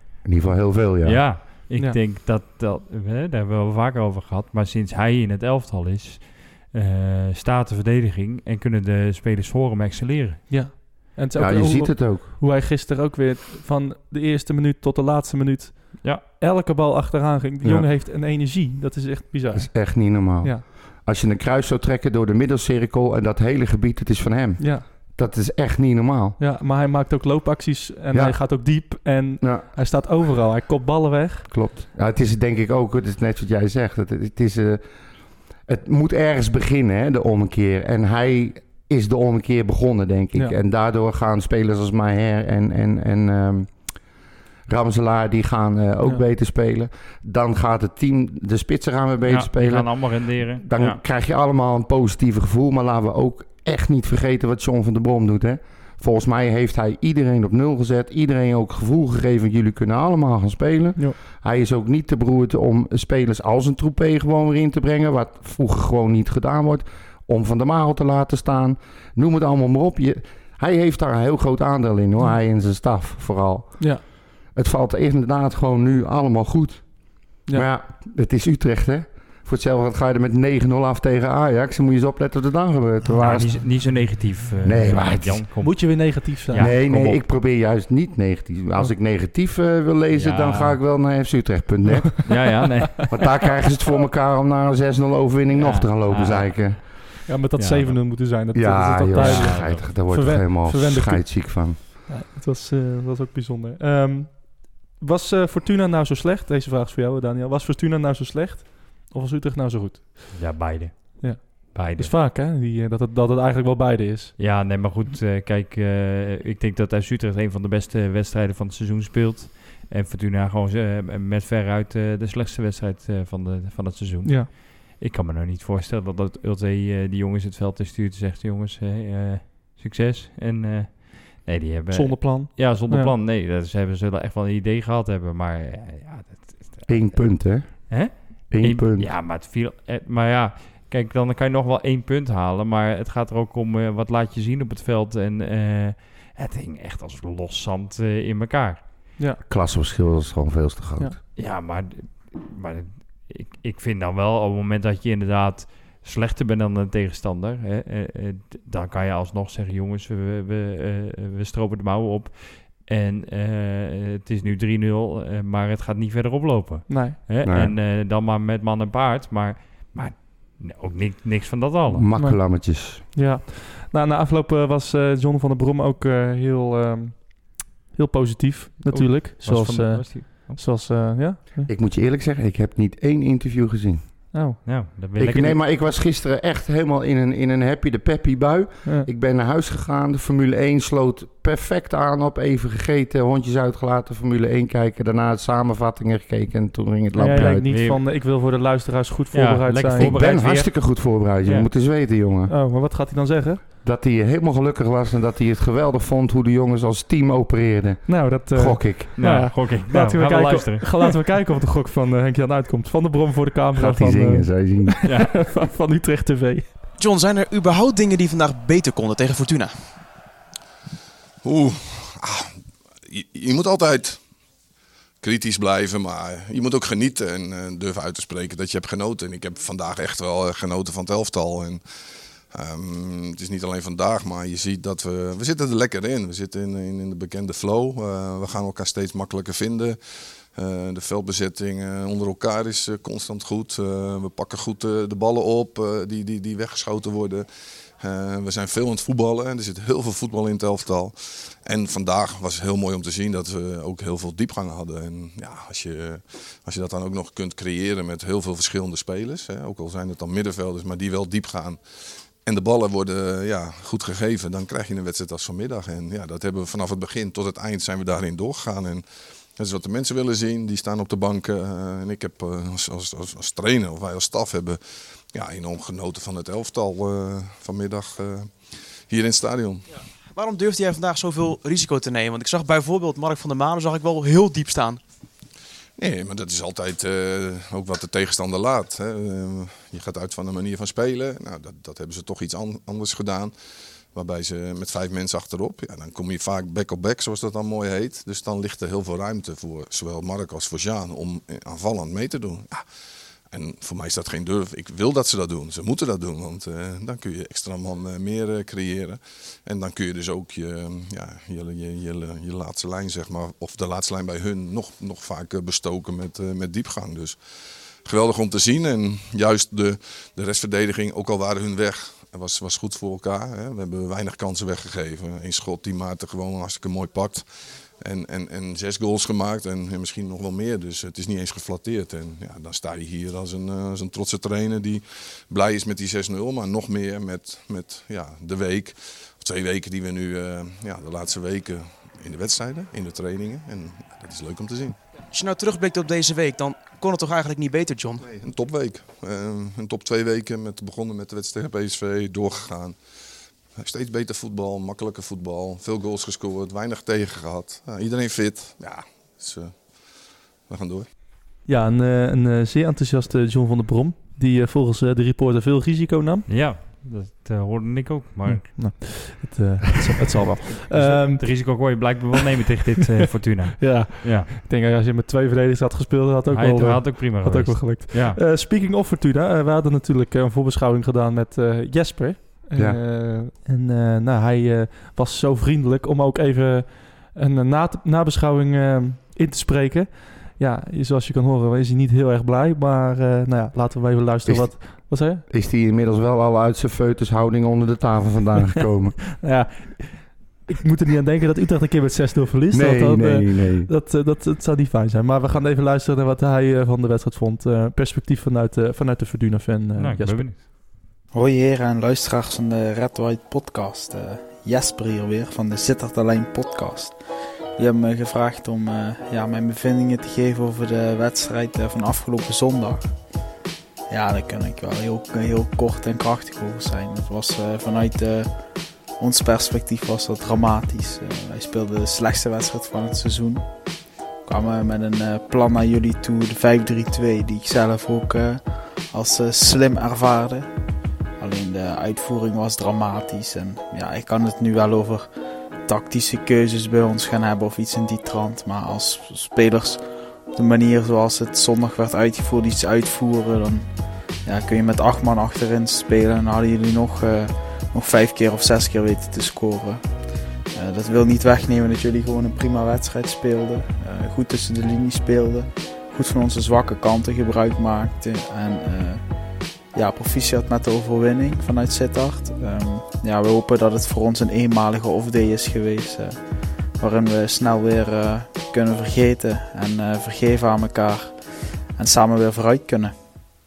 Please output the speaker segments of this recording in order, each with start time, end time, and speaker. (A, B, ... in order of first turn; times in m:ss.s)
0:00.2-0:01.3 A
0:01.0-0:10.4 B
0:10.5-0:20.6 C
0:11.4-0:12.3 A
0:19.6-0:26.4 A
0:24.6-0:24.8 C
0:26.4-0:31.5 C
0:28.1-0:28.4 A
0:31.5-0:34.8 A
0:35.7-0:43.7 A
0:44.7-1:14.0 A
0:49.3-0:51.0 B
1:14.5-1:23.8 A
1:23.2-1:27.2 B
1:24.6-1:25.5 A
1:25.6-1:27.1 C
1:26.5-1:32.5 A
1:30.1-1:30.8 B
1:31.9-1:32.3 C
1:32.3-1:33.2 B
1:33.1-1:36.8 A
1:35.6-1:36.9 B
1:37.3-1:50.4 C
1:37.6-1:38.0 B
1:38.5-1:41.8 A
1:39.1-1:39.9 B
1:50.4-1:52.1 B
1:51.2-1:54.3 C
1:54.4-2:17.3 B
2:11.9-2:13.1 C
2:16.9-2:19.1 A
2:17.9-2:28.8 B
2:29.5-2:31.2 A
2:31.4-2:52.1 B
2:46.9-2:47.2 C
2:47.4-2:47.7 A
2:51.9-2:53.0 A
2:52.2-3:01.7 C
2:58.9-3:00.6 B
3:01.7-3:04.0 A
3:04.3-3:04.6 C
3:04.6-3:05.6 B
3:05.2-3:17.6 A
3:17.2-3:20.2 C
3:17.3-3:18.0 B
3:19.3-3:21.7 B
3:20.0-3:22.6 A
3:22.5-3:23.6 C
3:23.8-3:29.1 A
3:28.1-3:36.7 C
3:29.2-3:31.1 B
3:33.8-3:35.0 A
3:35.1-3:35.4 B
3:37.0-3:39.7 D
3:41.4-3:42.5 E
3:43.1-3:44.2 E
3:45.2-3:51.8 E
3:52.5-4:00.0 E
4:00.5-4:07.5 E
4:08.0-4:21.8 E
4:22.4-4:29.0 E
4:29.6-4:34.8 E
4:35.3-4:38.5 E
4:39.1-4:39.9 E
4:40.3-4:45.0 D
4:46.0-4:53.5 E
4:54.1-5:02.8 E
5:03.5-5:17.4 E
5:18.0-5:27.4 E
5:28.0-5:45.0 E
5:45.3-5:48.3 D
5:48.2-5:53.0 E
5:53.8-5:59.8 E
6:00.7-6:01.1 E
6:01.6-6:06.5 C
6:06.5-6:08.8 B
6:08.5-6:11.8 C
6:10.8-6:14.5 B
6:13.8-6:35.4 C
6:16.5-6:18.4 B
6:34.5-6:34.7 A
6:35.5-6:39.2 A
6:39.4-6:50.5 C
6:42.7-6:43.9 A
6:50.0-6:50.6 B
6:51.3-6:57.2 F
6:57.8-7:03.1 F
7:04.1-7:08.5 F
7:09.2-7:13.6 F
7:14.5-7:20.7 F
7:21.4-7:25.3 F
7:25.9-7:33.9 F
7:34.4-7:40.1 F
7:40.7-7:49.2 F
7:49.9-7:56.4 F
7:57.0-8:03.1 F